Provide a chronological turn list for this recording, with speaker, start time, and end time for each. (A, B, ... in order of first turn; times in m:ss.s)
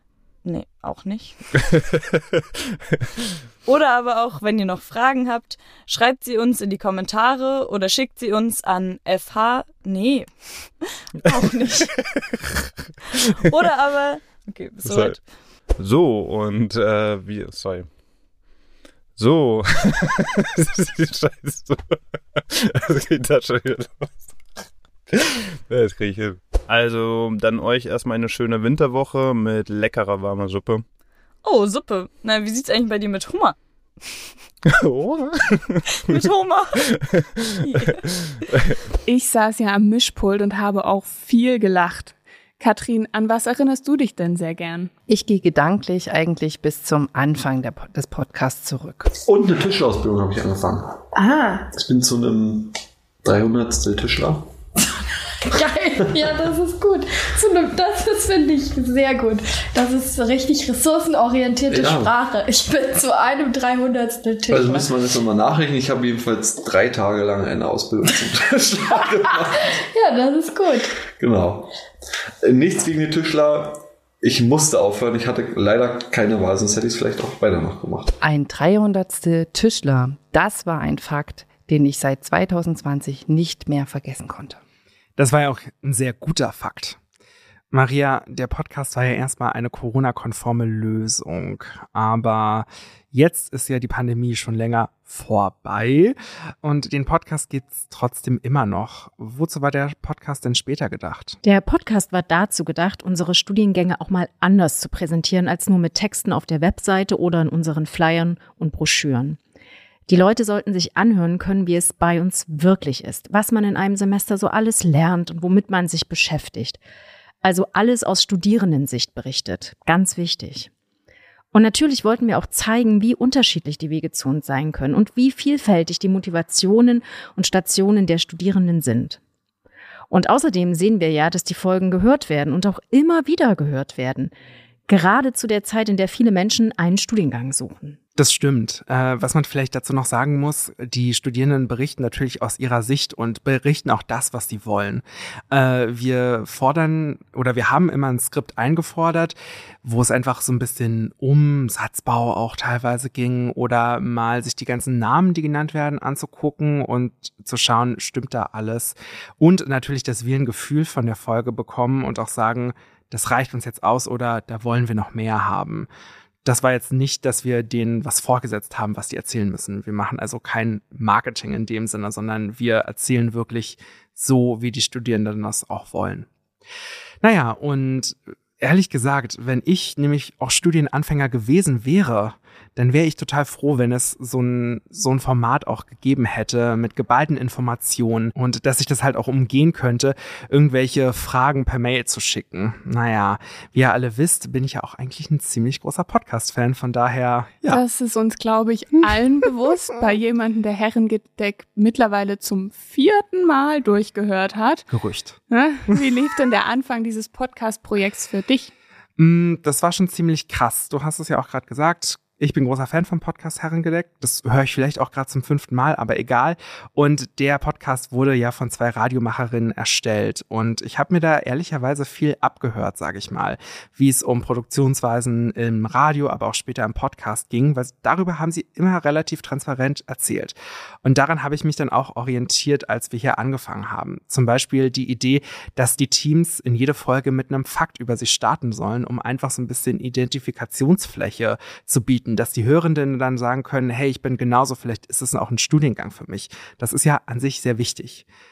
0:00.4-0:01.4 A
0:03.7-0:10.7 A
0:11.3-0:12.0 A
0:13.4-0:15.2 A
0:14.8-0:15.2 B
0:15.7-0:18.0 B
0:19.2-0:24.3 B
0:25.1-0:30.9 B
0:31.4-0:33.6 A
0:34.7-0:36.1 B
0:36.1-0:36.8 A
0:36.8-0:37.2 B
0:39.0-0:44.9 C
0:45.1-0:49.1 D
0:49.2-0:51.0 E
0:51.1-0:51.7 F
0:51.7-0:52.7 E
0:53.2-0:54.5 E
0:55.5-0:56.6 E
0:55.6-1:04.9 F
1:01.7-1:02.3 E
1:04.5-1:09.8 E
1:09.8-1:10.9 F
1:11.2-1:11.7 E
1:12.4-1:18.1 E
1:18.2-1:24.6 D
1:25.2-1:27.0 G
1:27.7-1:41.4 G
1:41.4-1:49.4 H
1:50.1-1:56.8 H
1:57.4-2:00.7 H
2:01.5-2:09.2 H
2:10.1-2:14.3 H
2:14.9-2:18.0 H
2:18.2-2:45.9 G
2:46.4-2:56.3 G
2:57.2-3:17.8 G
3:17.7-3:24.9 C
3:24.9-3:25.4 G
3:25.5-3:28.7 C
3:29.2-4:08.2 G